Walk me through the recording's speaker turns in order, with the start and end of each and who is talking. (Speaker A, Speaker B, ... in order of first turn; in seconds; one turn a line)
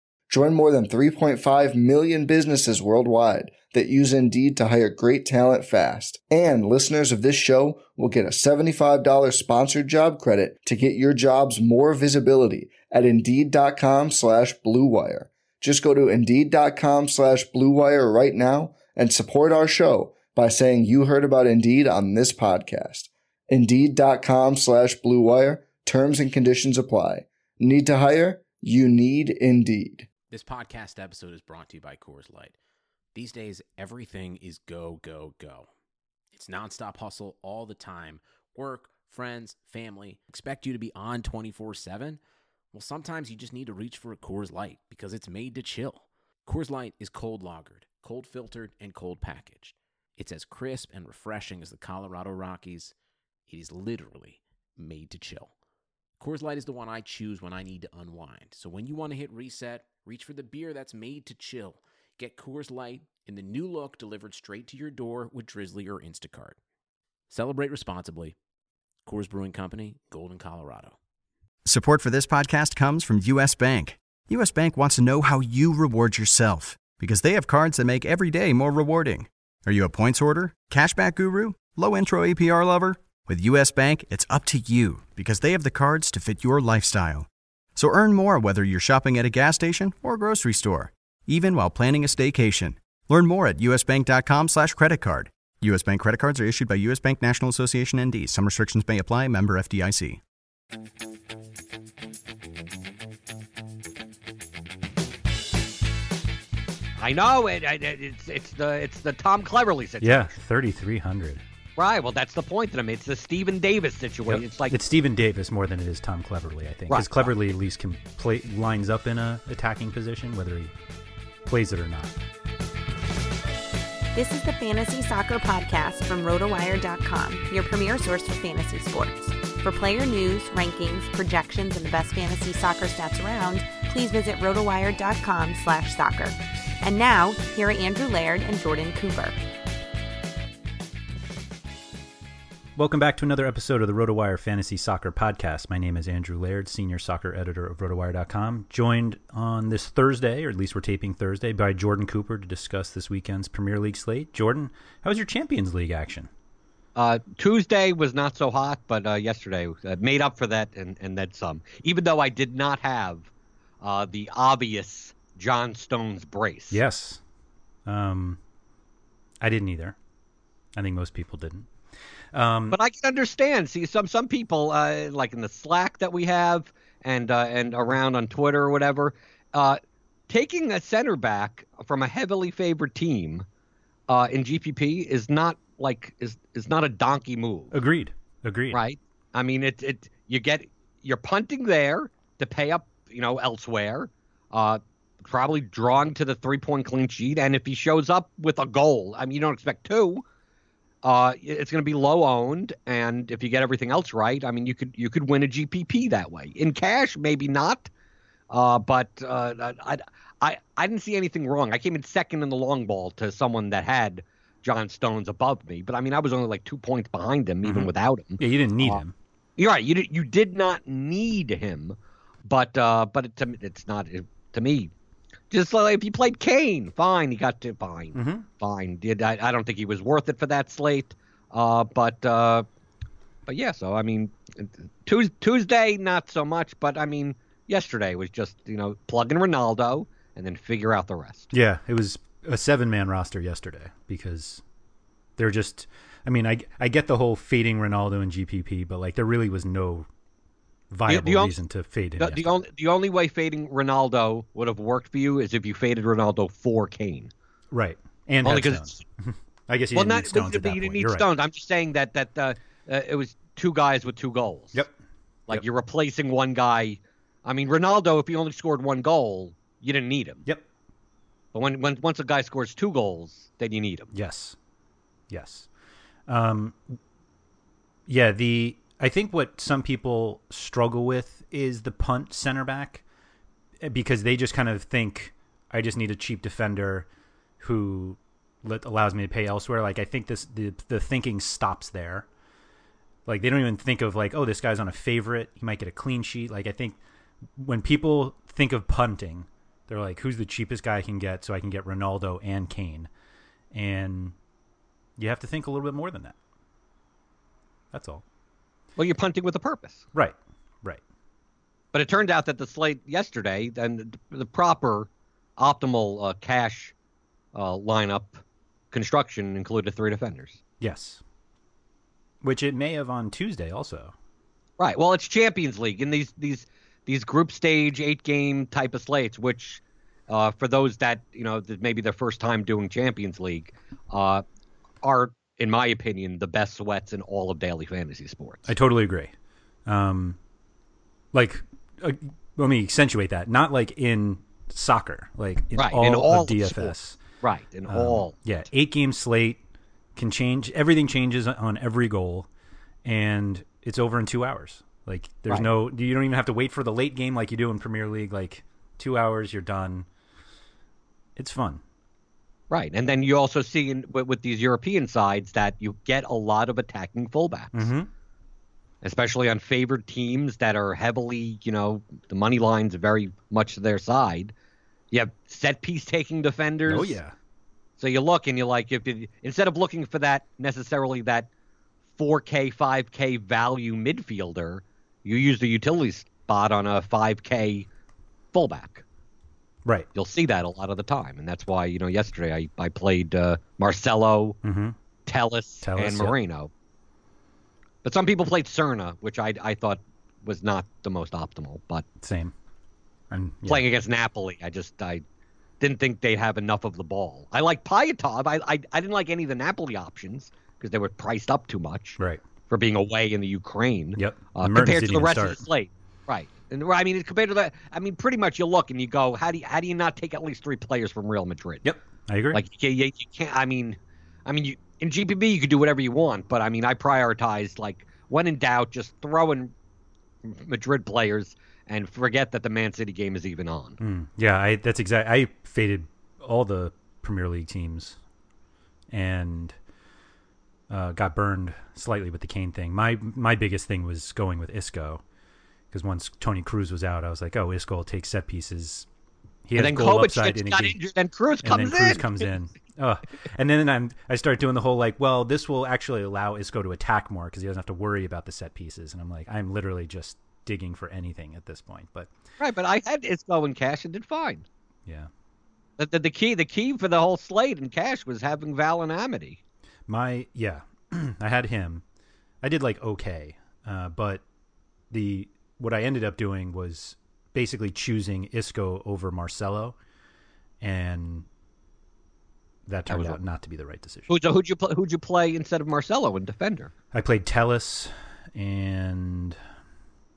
Speaker A: 0.3-30.1
Speaker B: 30.3-32.5
Speaker B: 33.1-35.7
Speaker B: 36.3-42.2
Speaker B: 42.7-52.9
Speaker B: 53.5-55.5
Speaker B: 56.2-66.6
Speaker B: 67.3-68.3
Speaker B: 69.0-71.0
Speaker C: 71.6-100.2
Speaker D: 107.0-110.3
Speaker E: 110.0-111.4
Speaker D: 111.8-114.8
Speaker E: 114.3-120.7
Speaker D: 116.9-117.3
Speaker E: 121.5-122.2
Speaker F: 124.1-139.3
Speaker E: 142.8-156.3
Speaker D: 156.9-163.3
Speaker D: 163.8-166.8
Speaker E: 166.7-167.2
Speaker E: 167.8-168.4
Speaker E: 169.4-170.0
Speaker E: 170.7-171.7
Speaker E: 172.3-172.8
Speaker D: 172.7-183.4
Speaker D: 184.1-187.7
Speaker E: 187.7-188.8
Speaker D: 188.7-200.2
Speaker D: 201.0-207.9
Speaker D: 208.5-219.0
Speaker E: 217.6-219.1
Speaker D: 219.6-224.9
Speaker D: 225.5-232.7
Speaker E: 228.1-228.4
Speaker D: 233.5-241.5
Speaker E: 241.5-244.6
Speaker E: 245.4-250.1
Speaker E: 250.9-252.6
Speaker D: 251.1-251.6
Speaker D: 252.2-257.3
Speaker E: 257.7-261.2
Speaker D: 258.4-259.0
Speaker D: 259.9-264.8
Speaker D: 265.5-270.4
Speaker D: 271.5-274.1
Speaker E: 274.1-274.6
Speaker E: 275.3-275.7
Speaker E: 276.3-276.8
Speaker E: 278.1-283.0
Speaker E: 283.8-287.1
Speaker E: 287.6-292.2
Speaker E: 293.2-297.0
Speaker E: 297.6-303.1
Speaker E: 303.7-304.3
Speaker E: 305.2-306.3
Speaker E: 307.9-308.2
Speaker D: 309.0-310.0
Speaker E: 310.1-311.0
Speaker D: 311.9-316.9
Speaker D: 317.5-320.6
Speaker E: 320.8-321.2
Speaker E: 322.4-324.1
Speaker D: 324.8-334.4
Speaker D: 335.0-338.7
Speaker E: 338.7-339.3
Speaker E: 339.9-340.4
Speaker E: 341.3-347.2
Speaker D: 345.8-348.3
Speaker E: 347.9-349.6
Speaker E: 350.1-352.5
Speaker E: 353.0-360.1
Speaker E: 361.4-361.8
Speaker D: 362.7-367.9
Speaker E: 367.7-368.1
Speaker D: 369.0-374.5
Speaker D: 375.1-377.2
Speaker E: 376.9-377.3
Speaker D: 378.0-381.5
Speaker D: 382.2-387.9
Speaker D: 388.5-389.0
Speaker D: 390.1-394.6
Speaker E: 394.6-394.9
Speaker D: 395.2-396.7
Speaker E: 395.8-396.3
Speaker D: 398.0-402.1
Speaker E: 402.2-402.5
Speaker E: 403.3-403.8
Speaker D: 403.6-405.2
Speaker D: 405.8-412.2
Speaker D: 412.7-421.9
Speaker E: 414.2-415.6
Speaker E: 421.8-422.6
Speaker D: 422.5-429.7
Speaker D: 430.4-434.0
Speaker E: 434.0-438.2
Speaker E: 439.1-439.7
Speaker E: 440.9-445.2
Speaker E: 445.9-449.1
Speaker E: 449.6-450.9
Speaker D: 449.8-452.5
Speaker E: 451.6-462.3
Speaker D: 462.6-464.6
Speaker D: 466.0-469.6
Speaker E: 470.1-472.0
Speaker E: 472.6-474.4
Speaker E: 475.1-479.9
Speaker E: 480.8-481.5
Speaker E: 482.9-484.3
Speaker D: 483.1-483.4
Speaker D: 484.3-486.9
Speaker E: 487.1-489.6